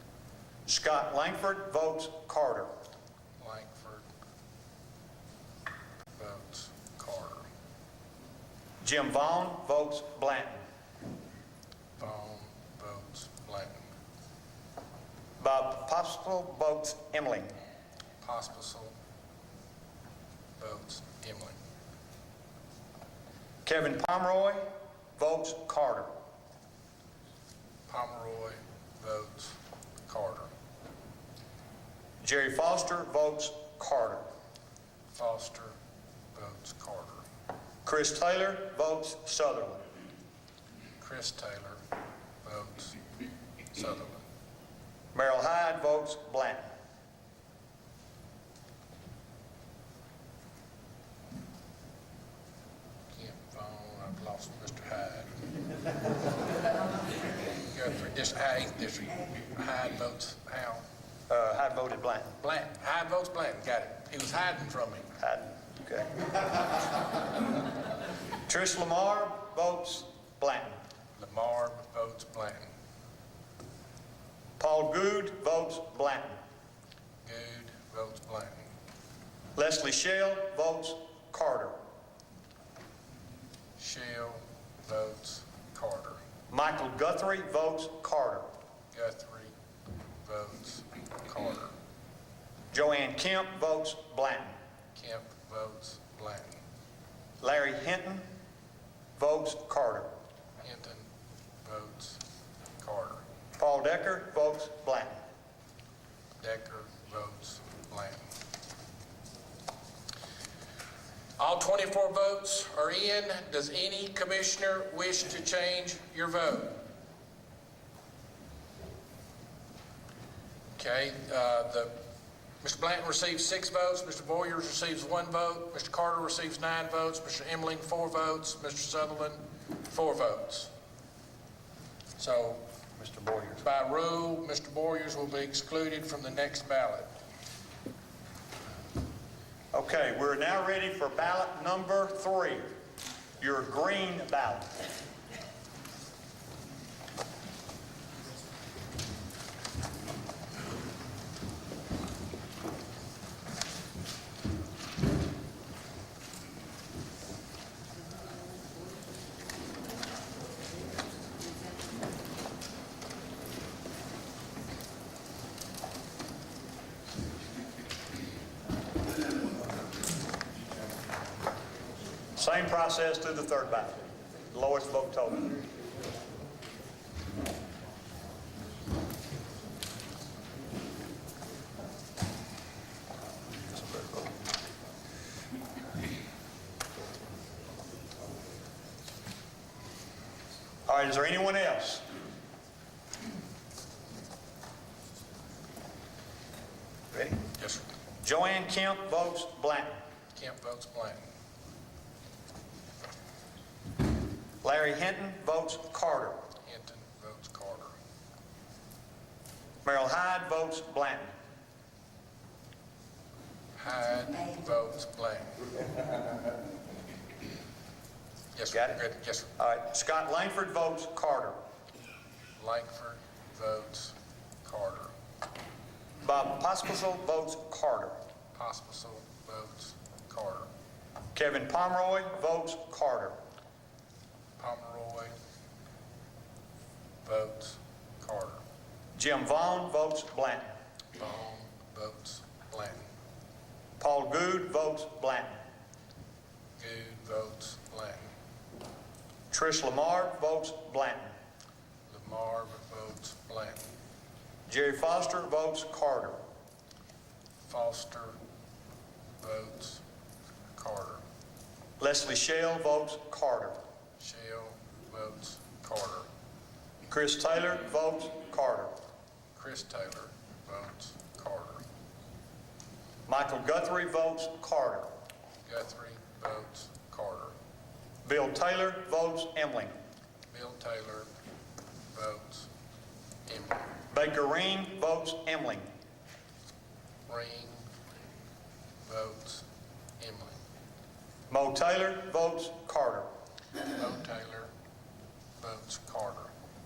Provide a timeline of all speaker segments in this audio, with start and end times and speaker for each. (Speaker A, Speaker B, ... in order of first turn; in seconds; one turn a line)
Speaker A: 0.7-2.7
Speaker B: 3.4-4.1
Speaker B: 6.2-7.5
Speaker A: 8.8-10.6
Speaker B: 12.0-13.8
Speaker A: 15.4-17.5
Speaker B: 18.2-18.9
Speaker B: 20.6-21.6
Speaker A: 23.6-24.6
Speaker A: 25.2-26.1
Speaker B: 27.9-30.5
Speaker A: 32.2-34.2
Speaker B: 35.1-35.8
Speaker B: 36.3-37.3
Speaker A: 37.9-39.9
Speaker B: 41.0-41.8
Speaker B: 42.4-43.0
Speaker B: 43.7-44.2
Speaker A: 45.1-46.7
Speaker B: 53.1-55.4
Speaker B: 57.6-60.8
Speaker A: 61.3-62.4
Speaker B: 62.4-65.1
Speaker A: 65.2-66.2
Speaker A: 68.5-70.8
Speaker B: 71.2-72.7
Speaker A: 74.6-76.4
Speaker B: 77.2-78.7
Speaker A: 79.6-81.8
Speaker B: 83.8-86.2
Speaker A: 86.5-88.5
Speaker B: 88.9-89.5
Speaker B: 90.2-91.7
Speaker A: 92.7-94.5
Speaker B: 95.0-96.6
Speaker A: 97.4-98.2
Speaker A: 99.2-100.1
Speaker B: 100.6-101.1
Speaker B: 101.6-102.2
Speaker B: 102.8-103.2
Speaker A: 103.6-105.2
Speaker B: 106.4-108.2
Speaker B: 111.4-116.8
Speaker B: 120.8-121.9
Speaker B: 122.6-130.7
Speaker B: 132.2-132.6
Speaker A: 133.0-133.6
Speaker B: 133.6-137.1
Speaker A: 139.7-142.7
Speaker A: 143.4-144.7
Speaker A: 172.4-175.5
Speaker A: 190.9-192.0
Speaker A: 197.1-197.4
Speaker B: 197.6-197.9
Speaker A: 198.2-200.0
Speaker B: 200.3-201.2
Speaker A: 204.6-206.4
Speaker B: 206.6-207.9
Speaker A: 209.8-211.3
Speaker B: 213.8-215.6
Speaker B: 218.5-219.5
Speaker A: 218.7-219.0
Speaker A: 219.6-221.6
Speaker B: 222.6-225.1
Speaker A: 226.2-228.2
Speaker B: 228.5-230.7
Speaker A: 231.3-233.3
Speaker B: 234.6-235.3
Speaker B: 237.2-238.6
Speaker A: 239.2-240.7
Speaker B: 241.2-243.1
Speaker A: 244.0-245.6
Speaker B: 246.8-248.3
Speaker A: 249.5-251.3
Speaker B: 252.1-253.8
Speaker A: 254.7-256.4
Speaker B: 257.6-258.4
Speaker B: 259.4-260.0
Speaker B: 260.8-261.2
Speaker A: 262.0-263.8
Speaker B: 264.2-266.3
Speaker A: 267.1-268.9
Speaker B: 269.6-271.8
Speaker A: 273.3-275.1
Speaker B: 275.7-277.6
Speaker A: 278.2-279.9
Speaker B: 280.5-281.3
Speaker B: 282.1-282.7
Speaker B: 283.5-283.9
Speaker A: 284.1-285.9
Speaker B: 287.3-287.9
Speaker B: 289.1-289.6
Speaker B: 290.2-290.6
Speaker A: 291.5-293.3
Speaker B: 293.9-294.7
Speaker B: 295.6-296.5